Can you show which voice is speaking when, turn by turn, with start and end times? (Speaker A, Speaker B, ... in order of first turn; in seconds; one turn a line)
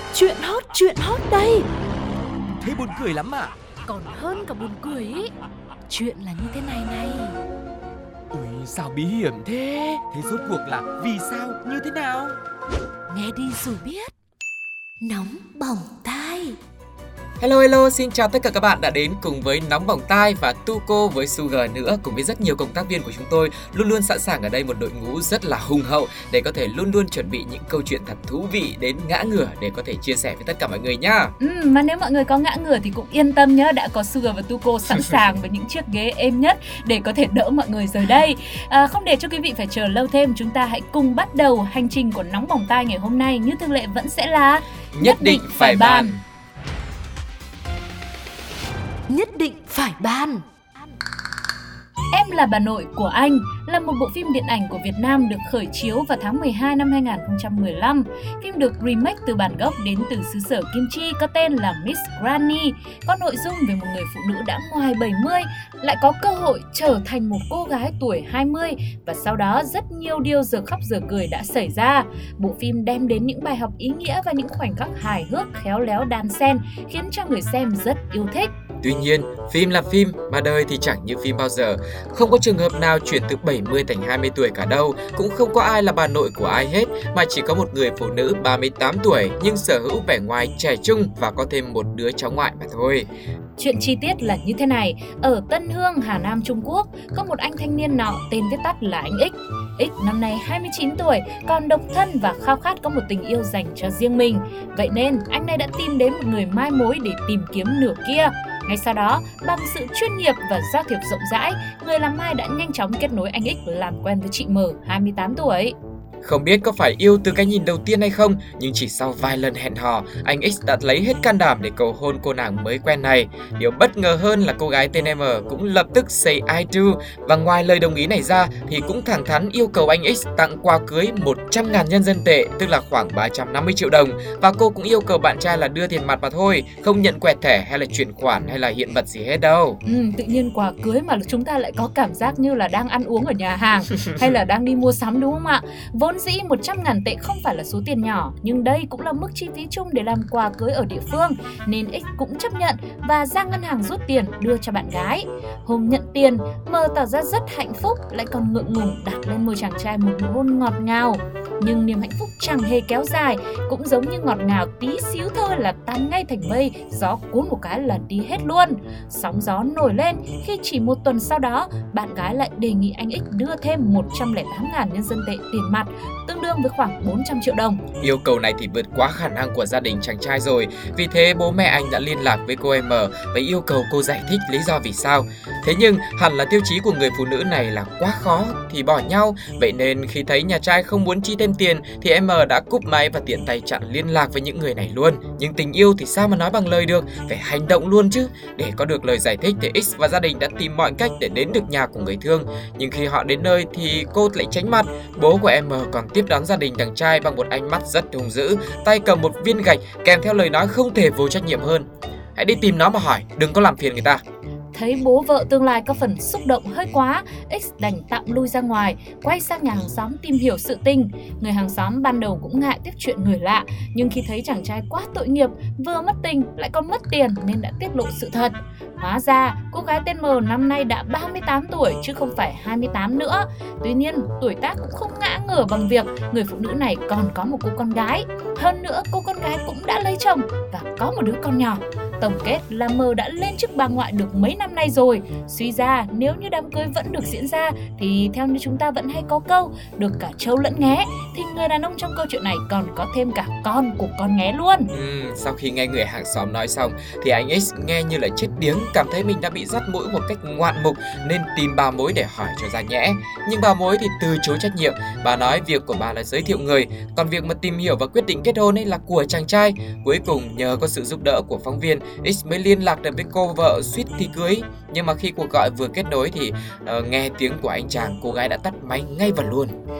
Speaker A: 0.1-1.7
Speaker B: 2.6-3.5
Speaker A: 3.9-5.3
Speaker A: 5.9-7.4
Speaker B: 8.3-12.4
Speaker A: 13.1-14.1
Speaker A: 15.0-16.6
Speaker C: 17.4-31.3
Speaker D: 31.4-46.1
Speaker C: 44.9-46.2
Speaker A: 49.1-50.4
Speaker D: 52.1-78.5
Speaker C: 78.8-93.1
Speaker D: 93.6-115.7
Speaker C: 116.2-139.8
Speaker D: 139.8-177.8
Speaker C: 178.0-214.2
Speaker D: 214.7-254.9
Speaker C: 254.9-279.8